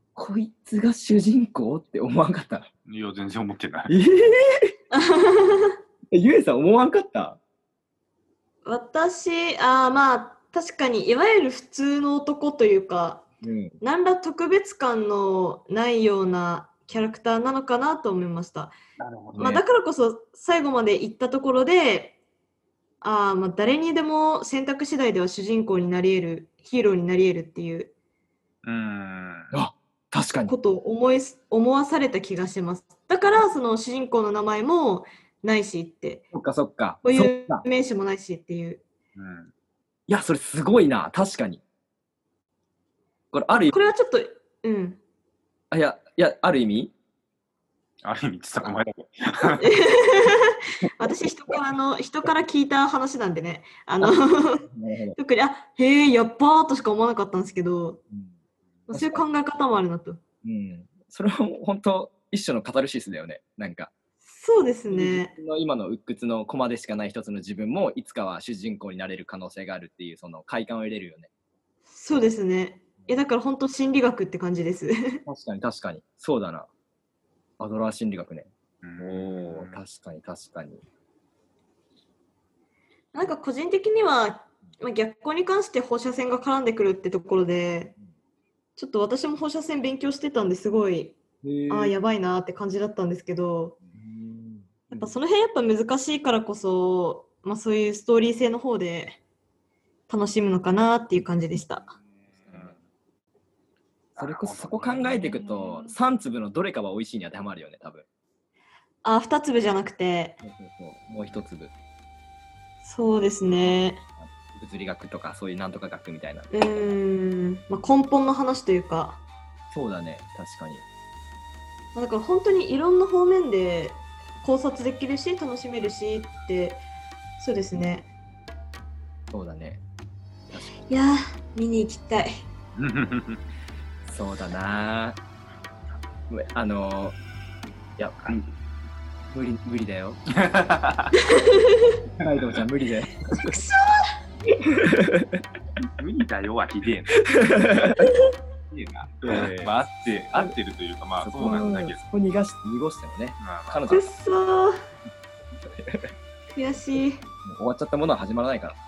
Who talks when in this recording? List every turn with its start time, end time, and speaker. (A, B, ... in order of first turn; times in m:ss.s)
0:00.2-0:02.7 A
0:02.9-0:04.0 B
0:03.9-0:04.7 A
0:04.9-0:05.8 C
0:06.1-0:07.4 A
0:08.6-0:13.3 C
0:13.4-0:13.8 A
0:13.8-0:18.7 C
0:19.0-0:19.6 B
0:19.4-0:19.6 A
0:19.4-0:22.2 C
0:23.0-0:27.9 C
0:28.6-0:29.6 B
0:29.5-0:30.5 A
0:30.5-0:36.3 C
0:36.3-0:37.6 A
0:37.0-0:38.8 C
0:39.2-0:39.5 B
0:40.1-0:41.6 A
0:43.3-0:43.8 A
0:43.7-0:45.0 C
0:45.7-0:46.9 A
0:48.0-0:49.7 B
0:49.6-0:58.0 C
0:54.0-0:55.2 A
0:58.9-1:00.2 C
0:58.9-0:59.2 A
1:00.4-1:03.9 A
1:04.2-1:05.3 C
1:04.9-1:11.3 A
1:11.9-1:15.2 C
1:15.3-1:16.7 A
1:17.6-1:20.8 A
1:18.8-1:19.8 B
1:23.1-1:28.0 C
1:28.8-1:33.8 C
1:31.4-1:32.0 A
1:33.9-1:35.2 A
1:34.9-1:39.2 C
1:40.1-1:41.9 C
1:42.2-1:42.9 B
1:44.2-1:48.0 A
1:44.2-1:45.3 B
1:45.3-1:45.9 C
1:49.0-1:50.4 C
1:50.4-1:51.7 A
1:52.8-1:54.0 C
1:54.2-1:56.5 A
1:56.5-1:59.2 C
1:59.7-2:00.8 A
2:02.0-2:06.8 C
2:07.4-2:08.1 C
2:09.3-2:09.8 A
2:10.9-2:12.4 C
2:12.8-2:13.4 B
2:14.1-2:15.2 A
2:16.3-2:17.2 A
2:18.0-2:18.3 A
2:19.3-2:20.2 A
2:20.3-2:21.2 B
2:21.2-2:22.0 C
2:22.2-2:23.6 A
2:23.3-2:24.1 C
2:24.5-2:25.4 A
2:26.0-2:27.2 B
2:27.2-2:28.1 A
2:28.7-2:32.0 B
2:29.2-2:29.7 A
2:31.2-2:34.1 A
2:33.4-2:33.9 B
2:33.9-2:34.8 C
2:35.6-2:36.1 A
2:36.5-2:37.2 C
2:37.4-2:38.8 A